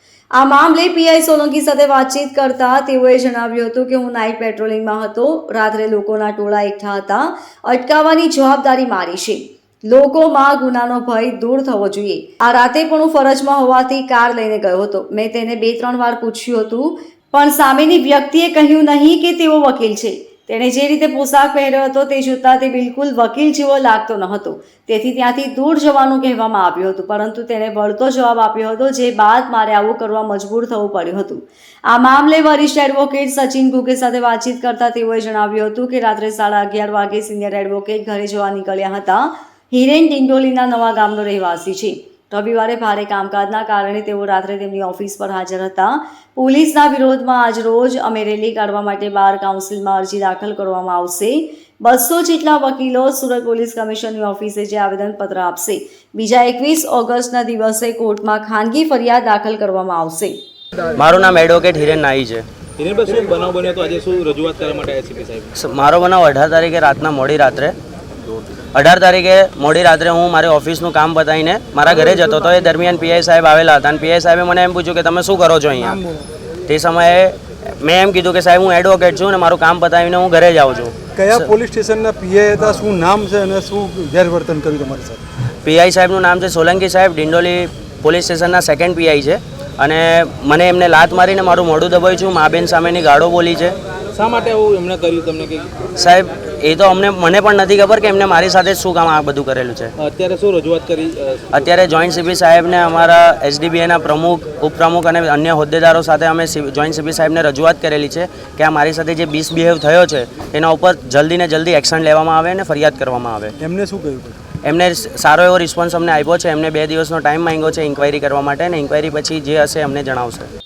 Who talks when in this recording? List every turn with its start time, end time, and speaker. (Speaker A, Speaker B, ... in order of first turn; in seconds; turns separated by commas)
Speaker A: 0.3-60.4, Speaker B: 61.0-62.4, Speaker C: 62.8-65.5, Speaker B: 65.6-67.7, Speaker B: 68.7-76.0, Speaker D: 75.8-76.2, Speaker B: 76.7-81.5, Speaker D: 81.2-85.2, Speaker B: 85.6-93.8, Speaker C: 94.1-95.7, Speaker B: 96.0-99.9, Speaker C: 100.0-101.5, Speaker B: 101.5-113.5, Speaker D: 113.6-114.4, Speaker B: 114.6-120.5